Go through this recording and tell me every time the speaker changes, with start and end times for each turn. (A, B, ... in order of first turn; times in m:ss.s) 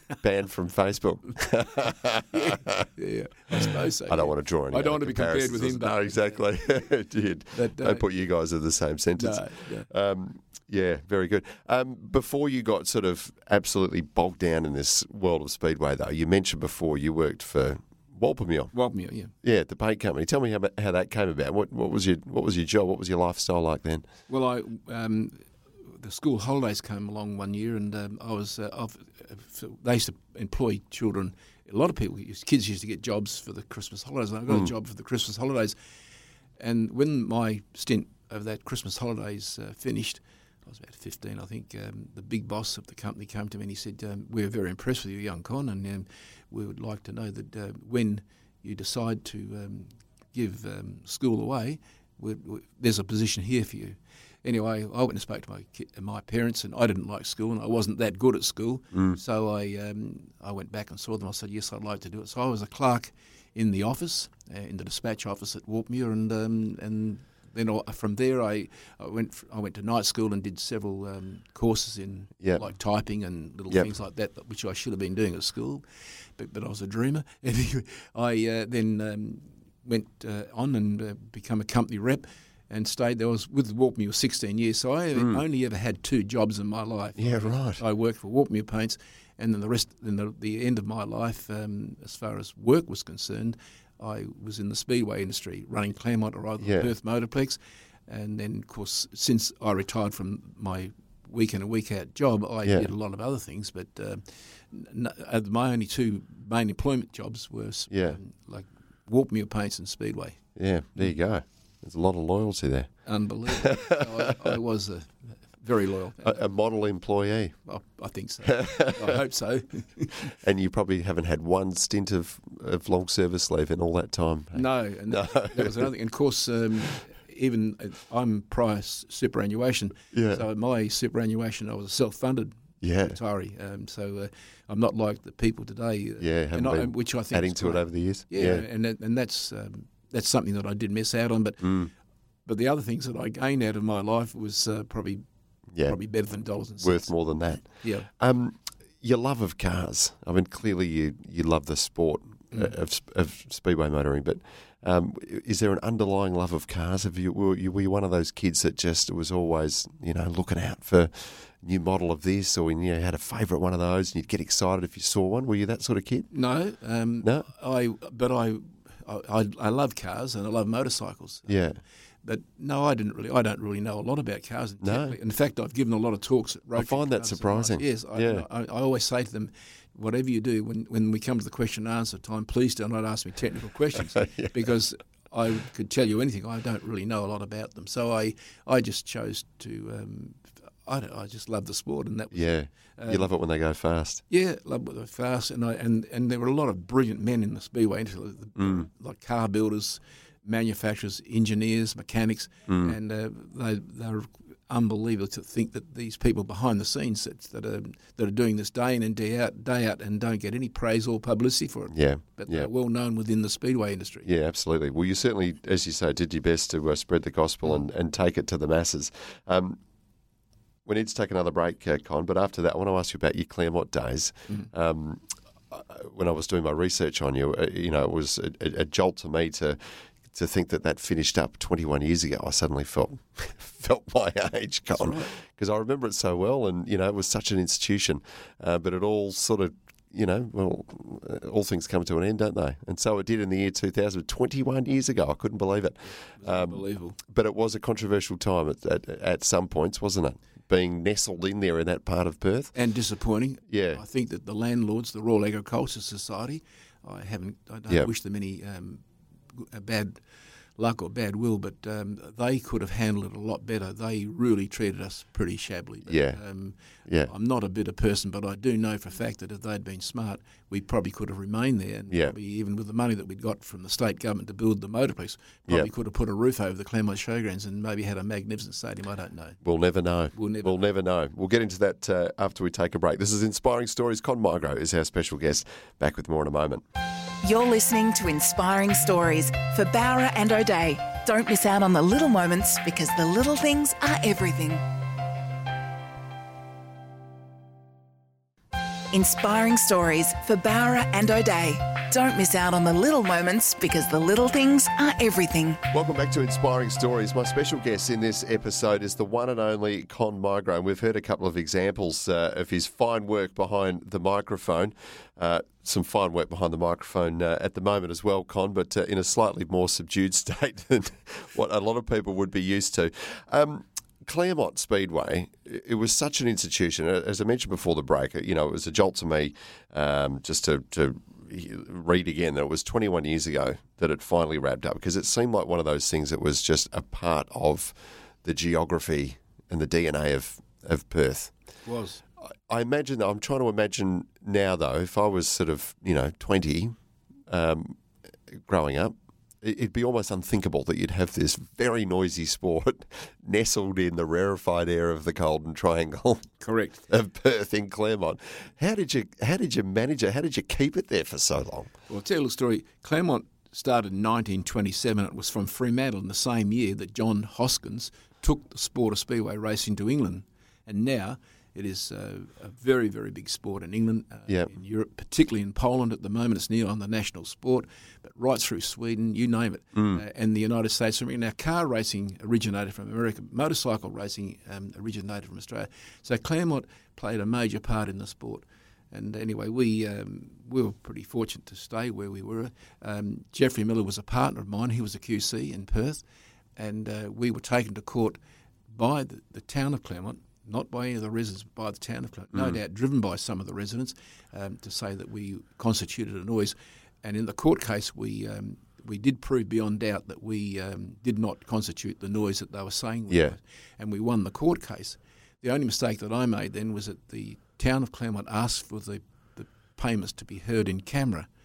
0:00.2-0:02.9 A
0:02.3-0:06.4 B
0:04.1-0:18.7 A
0:07.5-0:08.0 B
0:09.2-0:09.9 B
0:18.7-0:19.3 B
0:19.4-0:24.1 A
0:24.3-0:25.4 B
0:26.0-0:35.8 B
0:36.6-1:15.8 B
0:58.9-0:59.2 A
1:16.4-1:50.4 B
1:25.2-1:25.4 A
1:27.2-1:27.8 A
1:36.6-1:36.9 A
1:47.9-1:48.2 A
1:50.6-1:54.6 A
1:53.1-1:56.4 B
1:56.2-1:57.6 A
1:57.7-2:00.3 B
1:58.5-1:59.2 A
2:00.4-2:05.9 A
2:04.5-2:21.8 B
2:10.1-2:10.4 A
2:12.8-2:13.2 A
2:16.2-2:18.6 A
2:21.6-2:21.9 A
2:22.5-2:25.2 B
2:25.8-2:28.1 B
2:26.8-2:46.3 A
2:46.3-2:51.6 B
2:47.2-2:47.5 A
2:51.5-2:51.8 A
2:52.2-3:13.3 B
2:54.8-2:55.2 A
2:56.8-2:58.5 A
3:04.2-3:04.6 A
3:12.3-3:14.2 A
3:14.3-3:34.3 B
3:18.6-3:18.9 A
3:22.7-3:23.0 A
3:31.9-3:32.7 A
3:34.2-3:39.8 A
3:40.9-4:12.7 A
3:54.9-3:55.3 B
4:06.1-4:07.2 B
4:12.8-4:19.0 B
4:13.7-4:14.0 A
4:19.6-4:20.2 B
4:20.8-4:39.6 B
4:26.1-4:26.4 A
4:32.1-4:32.4 A
4:39.6-4:46.8 A
4:40.4-4:40.8 B
4:47.4-4:54.8 C
4:59.1-5:05.8 C
5:05.9-5:41.5 A
5:41.8-5:42.2 B
5:42.7-5:47.0 A
5:47.5-5:48.0 A
5:48.5-6:01.9 A
5:56.6-5:57.0 B
6:02.1-6:36.2 B
6:20.0-6:20.2 A
6:36.8-6:38.4 B
6:38.9-7:01.5 B
6:53.3-6:53.6 A